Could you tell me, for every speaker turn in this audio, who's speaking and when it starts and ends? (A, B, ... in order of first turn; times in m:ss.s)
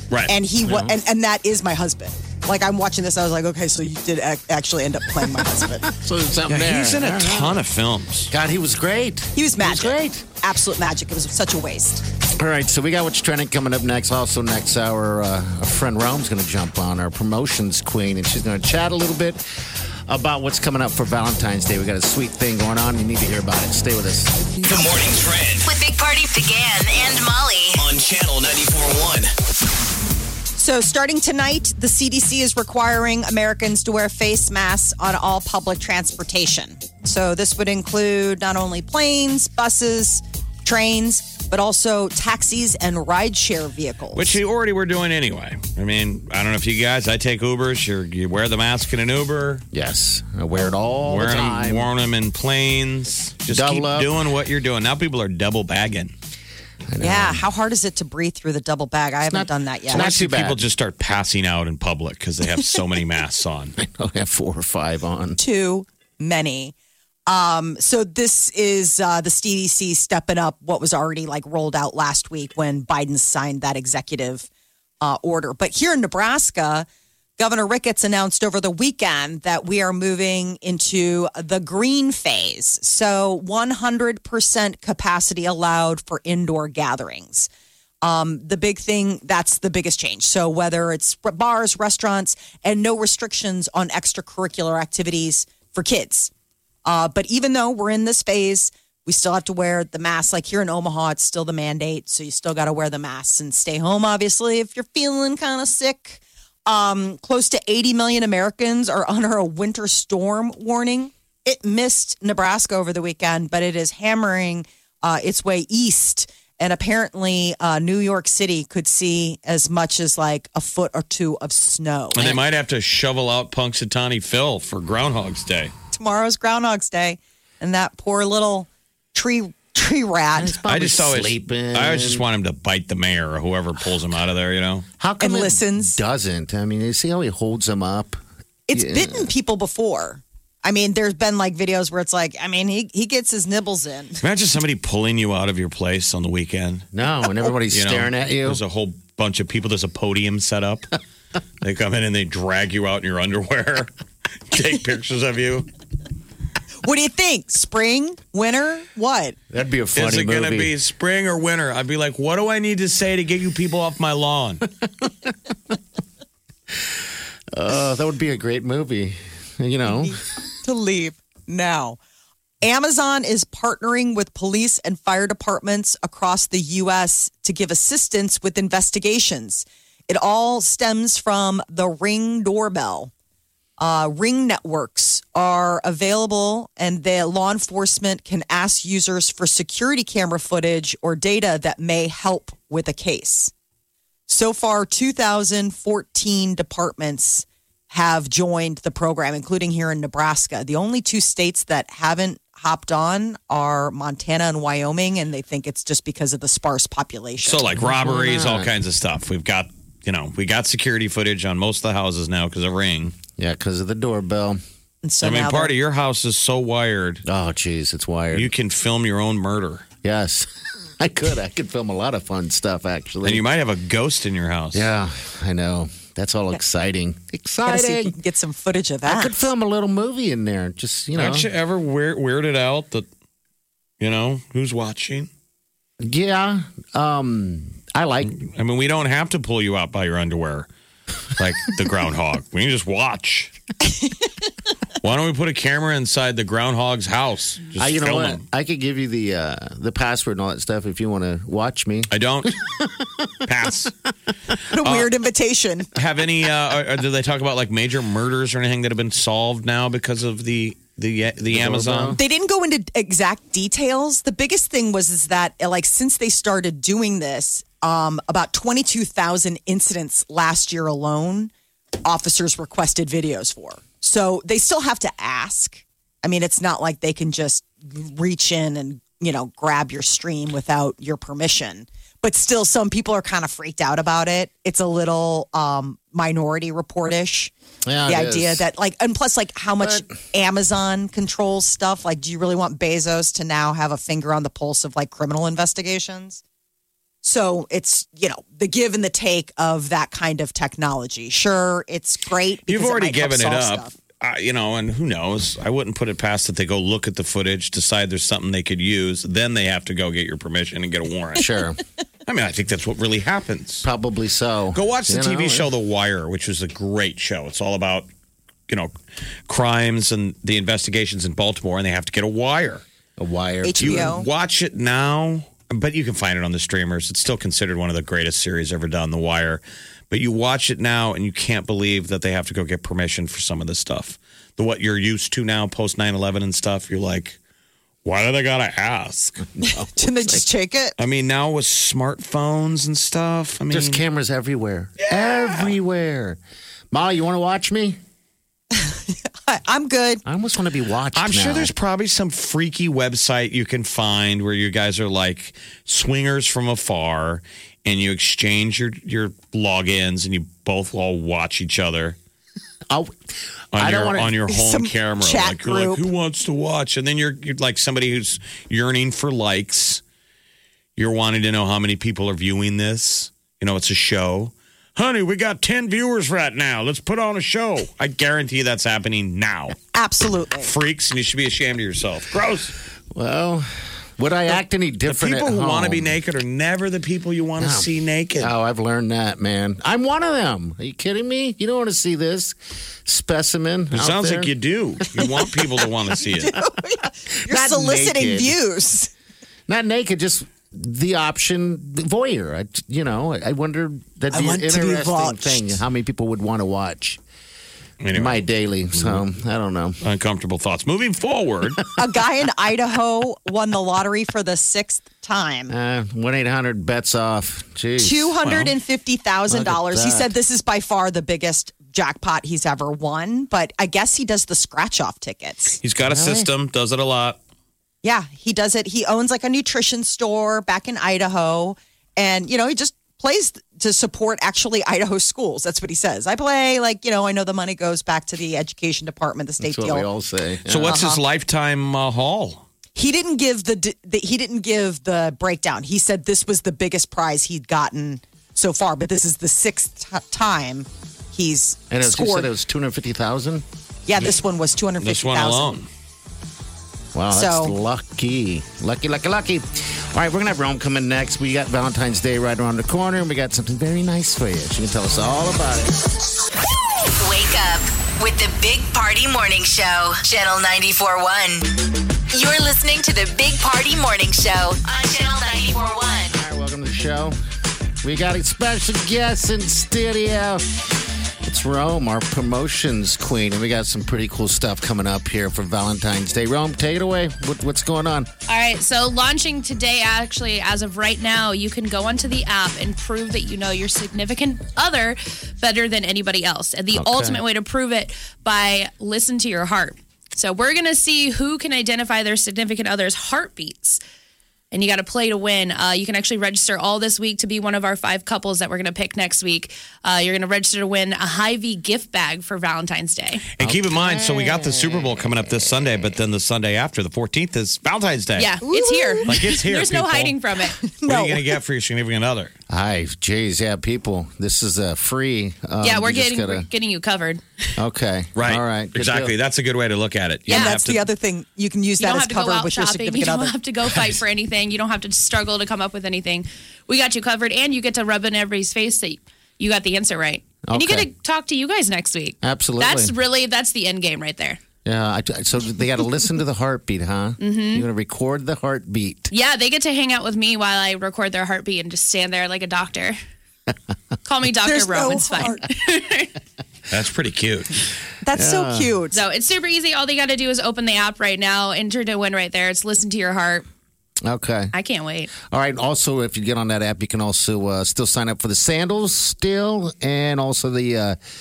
0:00.3-0:05.9 A
0:00.6-0:01.0 B
0:05.4-0:07.6 B
0:06.5-0:08.3 C
0:08.3-0:10.2 B
0:09.4-0:12.0 A
0:12.4-0:24.4 B
0:24.6-0:25.7 D
0:25.7-0:27.8 E
0:27.8-0:29.3 D
0:30.6-0:44.4 A
0:44.1-0:49.6 C
0:49.7-0:51.9 B
0:50.6-0:56.1 C
0:53.5-0:54.1 B
0:56.9-0:57.4 B
0:57.0-1:00.1 A
0:59.3-1:00.6 B
0:59.9-1:03.8 C
1:03.8-1:05.4 B
1:05.4-1:06.7 A
1:07.3-1:14.5 A
1:15.0-1:16.9 A
1:17.4-1:27.5 A
1:28.0-1:36.3 A
1:36.8-2:02.3 A
2:02.1-2:05.7 C
2:05.9-2:10.6 A
2:10.4-2:12.2 B
2:10.6-2:14.9 C
2:15.0-2:18.2 B
2:15.2-2:16.0 A
2:18.7-2:24.2 A
2:18.7-2:19.3 B
2:24.2-2:26.9 C
2:26.9-2:28.6 B
2:27.7-2:30.9 C
2:31.6-2:33.9 C
2:34.5-2:35.7 C
2:36.8-2:39.4 A
2:39.5-2:40.7 B
2:40.0-2:44.7 C
2:47.5-2:50.2 B
2:49.9-2:52.0 A
2:52.6-3:03.1 A
3:03.8-3:13.5 A
3:14.3-3:27.6 A
3:27.4-3:33.2 C
3:27.7-3:28.7 B
3:33.4-3:34.6 B
3:35.0-3:35.7 A
3:35.2-3:37.2 C
3:37.3-3:38.5 B
3:38.3-3:39.8 C
3:40.0-3:40.5 B
3:41.0-3:43.4 B
3:43.2-3:44.9 C
3:44.7-3:48.2 B
3:47.6-3:49.5 A
3:49.1-3:51.5 B
3:51.1-3:53.1 C
3:54.0-3:55.3 C
3:56.0-3:58.3 B
3:58.3-4:00.7 C
4:01.4-4:03.5 C
4:05.0-4:08.4 C
4:07.8-4:13.3 B
4:12.1-4:12.6 C
4:13.4-4:13.9 C
4:14.7-4:15.9 A
4:14.8-4:15.1 C
4:16.0-4:22.2 C
4:21.5-4:22.2 B
4:22.2-4:31.5 A
4:32.0-4:47.5 A
4:47.9-4:48.6 B
4:48.1-4:56.4 A
4:49.8-4:50.1 B
4:57.2-5:03.9 A
5:02.7-5:11.5 C
5:11.4-5:11.8 B
5:12.3-5:13.8 C
5:13.8-5:15.7 B
5:14.7-5:18.1 C
5:19.5-5:22.8 C
5:23.2-5:24.2 B
5:23.6-5:24.2 A
5:23.8-5:37.4 C
5:38.0-5:39.4 C
5:39.6-5:40.4 B
5:39.7-5:41.0 A
5:41.0-5:44.0 C
5:43.7-5:46.4 B
5:45.0-5:45.7 C
5:46.9-5:48.0 B
5:48.7-5:50.2 A
5:50.2-5:51.7 B
5:51.1-6:02.2 C
6:02.9-6:04.3 B
6:03.7-6:10.0 C
6:04.5-6:06.1 A
6:11.0-6:19.8 C
6:19.9-6:20.7 A
6:20.6-6:22.7 C
6:23.1-6:26.2 B
6:25.1-6:28.5 C
6:27.6-6:34.5 B
6:33.9-6:36.6 C
6:35.2-6:35.5 B
6:36.4-6:39.1 A
6:37.4-6:38.6 B
6:39.7-6:47.2 B
6:44.3-6:45.8 A
6:48.0-6:49.2 C
6:48.1-6:50.0 B
6:50.0-6:51.8 C
6:52.0-6:55.7 A
6:55.7-6:58.4 B
6:58.0-7:05.8 A
6:58.4-6:58.7 C
6:59.5-7:00.3 B
7:05.8-7:07.4 C
7:06.0-7:06.5 B
7:08.0-7:20.1 A
7:19.6-7:21.0 B
7:20.7-7:22.6 C
7:20.9-7:21.2 A
7:23.0-7:32.5 A
7:31.9-7:33.6 B
7:34.1-7:35.8 A
7:35.0-7:35.9 C
7:37.1-7:45.9 B
7:37.3-7:37.7 A
7:47.2-7:51.7 E
7:52.3-7:56.4 E
7:56.3-7:57.4 B
7:58.0-8:00.9 B
8:01.4-8:08.3 B
8:08.5-8:24.0 F
8:16.9-8:17.4 B
8:24.7-8:33.4 F
8:33.6-8:38.6 C
8:33.6-8:36.1 B
8:38.4-8:40.8 F
8:38.6-8:39.4 A
8:39.2-8:40.4 C
8:40.8-8:41.5 A
8:40.9-8:42.5 C
8:42.7-8:46.7 B
8:45.8-8:47.7 F
8:47.8-8:49.3 B
8:48.4-8:51.1 C
8:50.5-8:50.8 F
8:50.5-8:53.5 A
8:52.0-9:04.6 F
9:00.6-9:01.1 B
9:02.4-9:03.1 B
9:04.8-9:09.3 B
9:07.4-9:07.9 F
9:09.3-9:13.2 F
9:14.2-9:16.3 F
9:14.6-9:15.6 A
9:16.9-9:17.8 C
9:18.2-9:19.2 A
9:18.3-9:18.9 B
9:19.1-9:23.6 F
9:24.2-9:24.7 B
9:24.7-9:25.3 F
9:25.4-9:31.2 B